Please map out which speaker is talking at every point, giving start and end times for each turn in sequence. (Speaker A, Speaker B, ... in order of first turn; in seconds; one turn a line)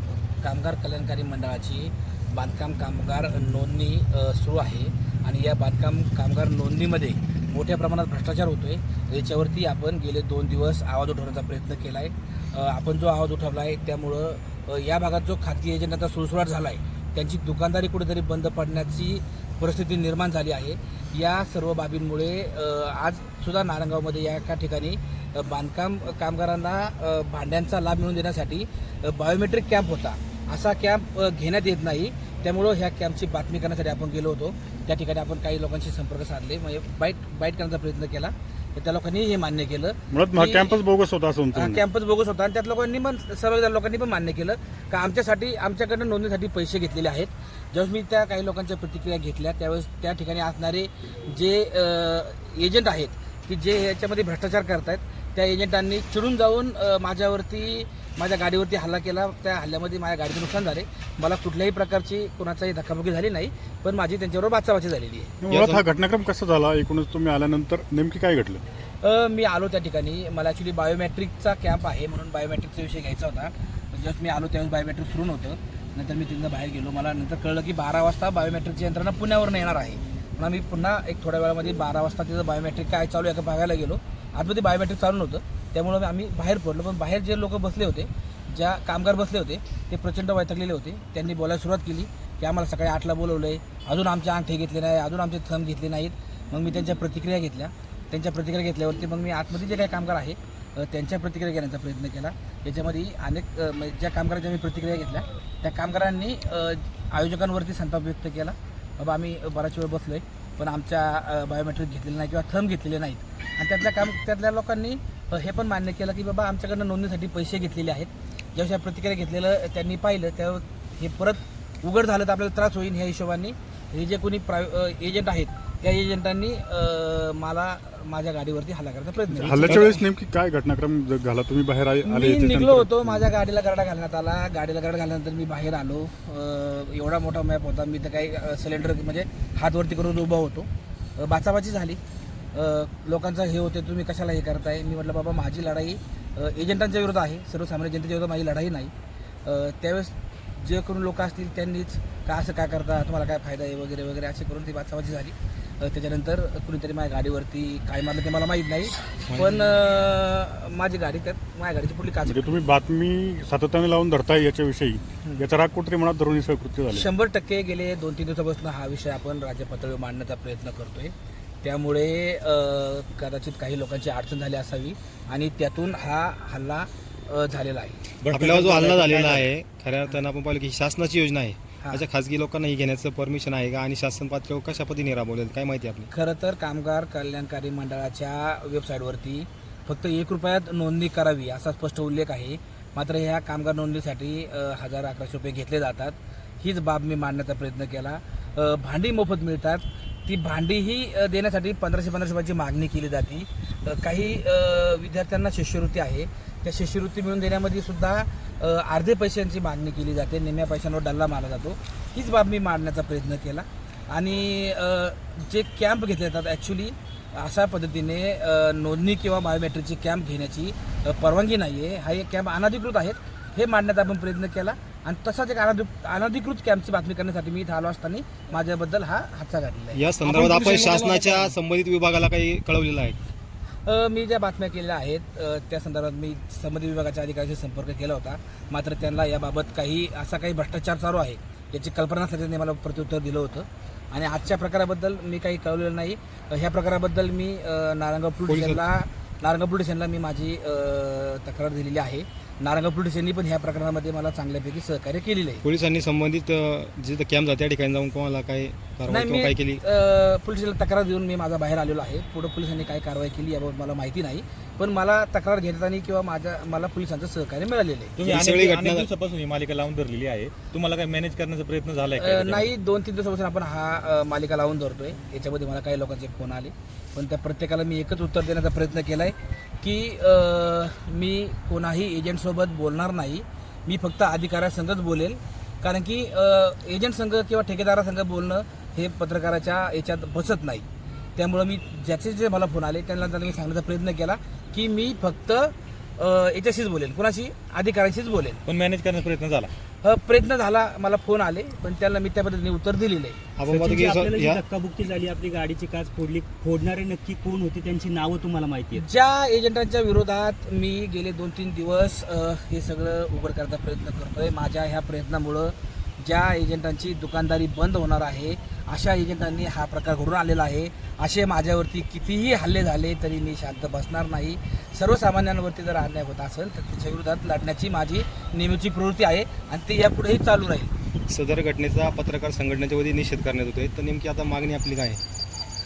Speaker A: 0.4-40.8
Speaker B: 40.1-41.8
Speaker A: 41.5-65.3
Speaker B: 65.4-68.6
Speaker C: 65.5-65.8
Speaker A: 69.0-130.0
Speaker B: 129.4-133.3
Speaker D: 129.4-129.9
Speaker A: 132.1-142.0
Speaker A: 142.5-148.9
Speaker A: 149.4-162.4
Speaker C: 159.3-159.6
Speaker B: 162.3-167.1
Speaker A: 166.9-178.0
Speaker E: 178.2-179.5
Speaker C: 178.3-186.1
Speaker A: 186.1-231.5
Speaker C: 229.9-233.2
Speaker A: 233.9-255.6
Speaker C: 248.5-248.8
Speaker C: 255.6-259.8
Speaker A: 259.1-268.1
Speaker E: 268.2-272.7
Speaker C: 268.2-269.1
Speaker A: 272.2-290.9
Speaker A: 291.4-298.6
Speaker E: 298.6-299.7
Speaker A: 300.0-303.4
Speaker C: 303.6-304.6
Speaker D: 303.7-309.0
Speaker A: 308.9-330.9
Speaker C: 331.3-335.2